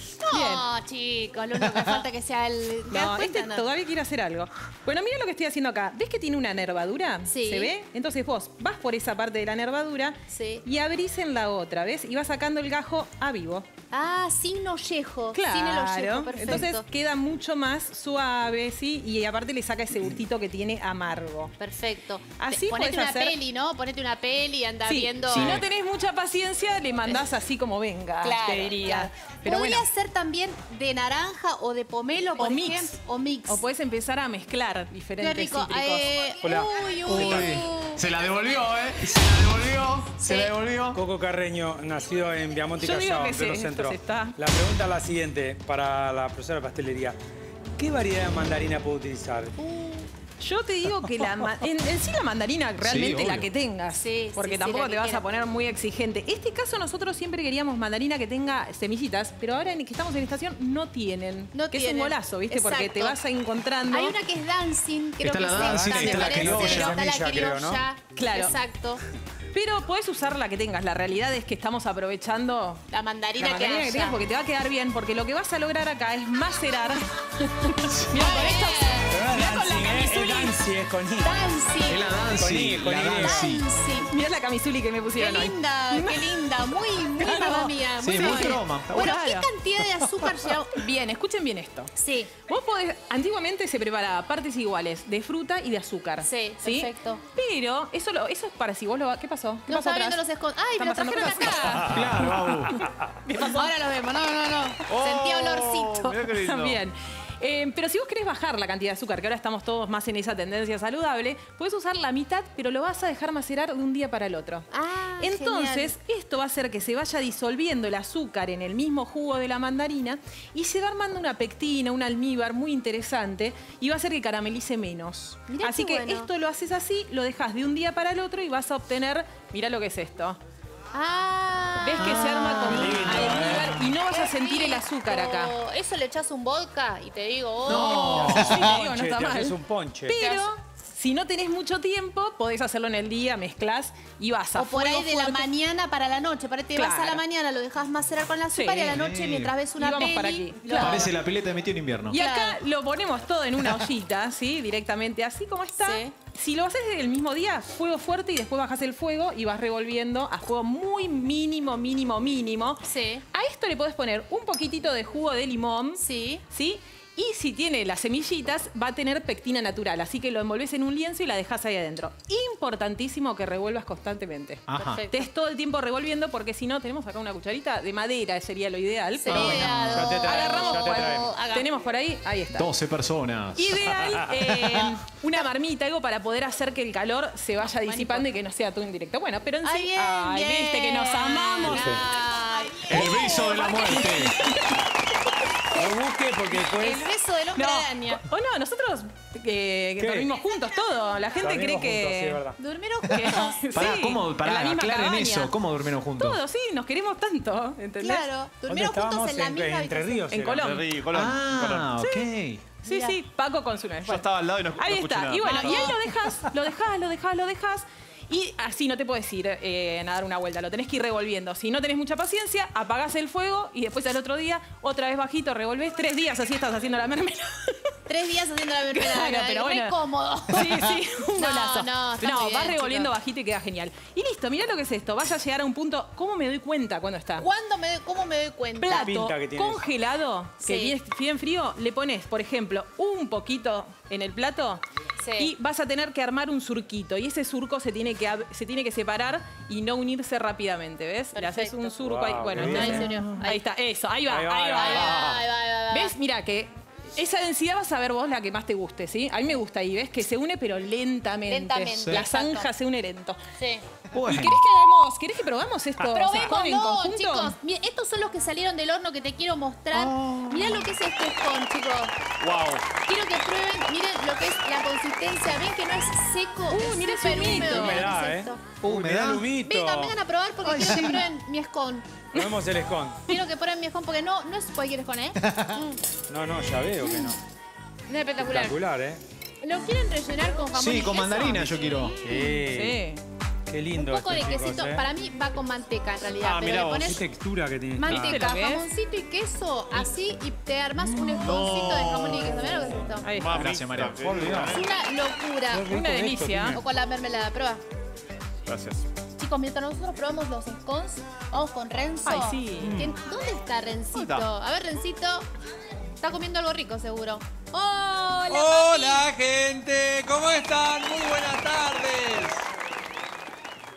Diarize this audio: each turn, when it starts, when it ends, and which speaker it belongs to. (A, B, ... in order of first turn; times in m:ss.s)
0:00.2-0:03.6 A
0:00.3-0:00.7 B
0:02.9-0:13.7 B
0:07.3-0:07.7 A
0:10.3-0:10.6 A
0:13.9-0:16.8 A
0:15.3-0:21.5 B
0:21.6-0:25.6 A
0:22.4-0:23.4 B
0:24.8-0:29.9 B
0:25.3-0:25.6 C
0:28.2-0:33.6 A
0:32.4-0:32.9 B
0:33.5-0:36.1 B
0:35.2-0:38.1 A
0:36.4-0:37.6 D
0:37.0-0:41.0 C
0:40.2-0:40.5 A
0:40.9-0:47.2 D
0:42.8-0:44.4 B
0:47.8-0:49.5 D
0:49.6-0:50.1 A
0:50.4-1:04.2 B
0:52.8-0:53.5 C
0:53.9-0:55.2 A
1:01.5-1:03.2 A
1:03.9-1:09.0 A
1:05.2-1:07.4 C
1:05.6-1:07.8 D
1:08.2-1:08.6 B
1:09.5-1:12.8 B
1:12.9-1:14.2 A
1:13.4-1:19.7 B
1:17.8-1:18.1 C
1:18.1-1:20.6 A
1:19.1-1:21.5 D
1:21.2-1:22.1 A
1:21.8-1:23.6 C
1:22.4-1:23.5 D
1:23.2-1:24.1 A
1:24.1-1:26.3 B
1:25.2-1:30.8 A
1:27.2-1:29.5 B
1:28.0-1:29.2 C
1:30.7-1:31.9 B
1:32.0-1:32.3 A
1:32.5-1:40.2 B
1:36.2-1:37.2 A
1:39.7-1:42.0 A
1:40.8-1:41.9 B
1:41.9-1:42.8 C
1:43.2-1:43.7 B
1:43.4-1:46.0 A
1:44.9-1:46.8 E
1:46.0-1:54.7 B
1:54.7-1:55.9 A
1:55.2-2:10.4 B
2:05.5-2:06.3 A
2:10.9-2:18.4 A
2:11.8-2:15.5 B
2:12.0-2:12.8 C
2:12.7-2:13.8 D
2:17.6-2:18.7 C
2:17.7-2:25.4 B
2:18.2-2:20.2 D
2:20.2-2:20.5 A
2:24.6-2:31.1 A
2:26.7-2:27.2 B
2:28.5-2:29.0 B
2:28.9-2:29.5 C
2:29.8-2:31.1 B
2:30.8-2:32.2 C
2:32.1-3:02.7 B
2:32.1-2:32.6 A
2:35.8-2:36.1 A
2:42.8-2:43.2 A
2:46.0-2:46.4 A
2:54.7-2:55.0 C
2:54.8-2:55.2 A
2:59.2-3:01.7 A
2:59.3-3:00.1 C
2:59.9-3:01.3 D
3:02.5-3:03.7 C
3:03.5-3:12.0 B
3:07.8-3:08.3 A
3:09.6-3:14.5 A
3:11.6-3:12.0 D
3:12.9-3:14.3 C
3:15.7-3:17.1 D
3:16.7-3:18.2 A
3:17.5-3:22.4 B
3:20.0-3:20.3 D
3:21.4-3:22.6 D
3:22.6-3:23.6 A
3:23.1-3:25.5 B
3:23.7-3:26.4 C
3:26.2-3:28.3 B
3:28.0-3:30.3 A
3:28.7-3:30.7 D
3:30.3-3:30.9 B
3:30.6-3:31.9 E
3:31.1-3:32.6 C
3:32.0-3:32.3 B
3:32.8-3:48.0 B
3:32.8-3:33.2 A
3:34.0-3:35.9 E
3:35.4-3:36.0 A
3:48.1-3:53.1 A
3:48.9-3:50.0 B
3:50.5-3:57.5 B
3:57.4-3:59.1 A
3:58.8-4:04.8 B
3:58.9-3:59.8 D
4:00.6-4:00.9 A
4:05.2-4:05.5 A
4:05.4-4:15.3 B
4:11.3-4:11.9 A
4:12.0-4:13.1 D
4:12.5-4:13.6 A
4:14.3-4:15.4 D
4:14.7-4:16.1 A
4:15.9-4:23.4 B
4:21.5-4:22.7 A
4:24.1-4:24.6 C
4:24.3-4:27.5 B
4:26.0-4:32.2 A
4:29.9-4:30.9 C
4:32.4-4:32.9 E
4:33.0-4:38.6 A
4:36.7-4:38.1 B
4:37.4-4:40.1 D
4:38.8-4:39.4 C
4:39.6-4:42.1 A
4:40.6-4:41.2 C
4:42.3-4:43.2 D
4:43.3-4:46.0 A
4:46.3-4:47.4 D
4:47.0-4:47.3 A
4:48.1-4:48.8 A
4:48.4-4:49.2 D
4:49.6-4:52.2 A
4:50.7-4:52.1 C
4:52.2-4:53.0 D
4:52.3-4:53.2 B
4:53.7-4:55.0 D
4:53.9-4:57.2 A
4:56.4-4:57.2 E
4:57.0-4:58.4 D
4:58.0-5:03.3 A
4:58.1-4:58.8 B
5:01.2-5:01.6 D
5:01.2-5:02.7 E
5:02.5-5:03.1 D
5:03.2-5:03.6 B
5:03.3-5:04.9 E
5:03.5-5:04.5 C
5:04.2-5:04.8 D
5:04.7-5:05.9 A
5:05.7-5:06.8 D
5:05.9-5:06.8 B
5:06.7-5:07.8 A
5:08.7-5:09.0 E
5:09.4-5:15.5 A
5:12.2-5:13.0 B
5:12.8-5:13.1 D
5:14.1-5:14.4 E
5:16.2-5:19.2 A
5:18.5-5:22.6 F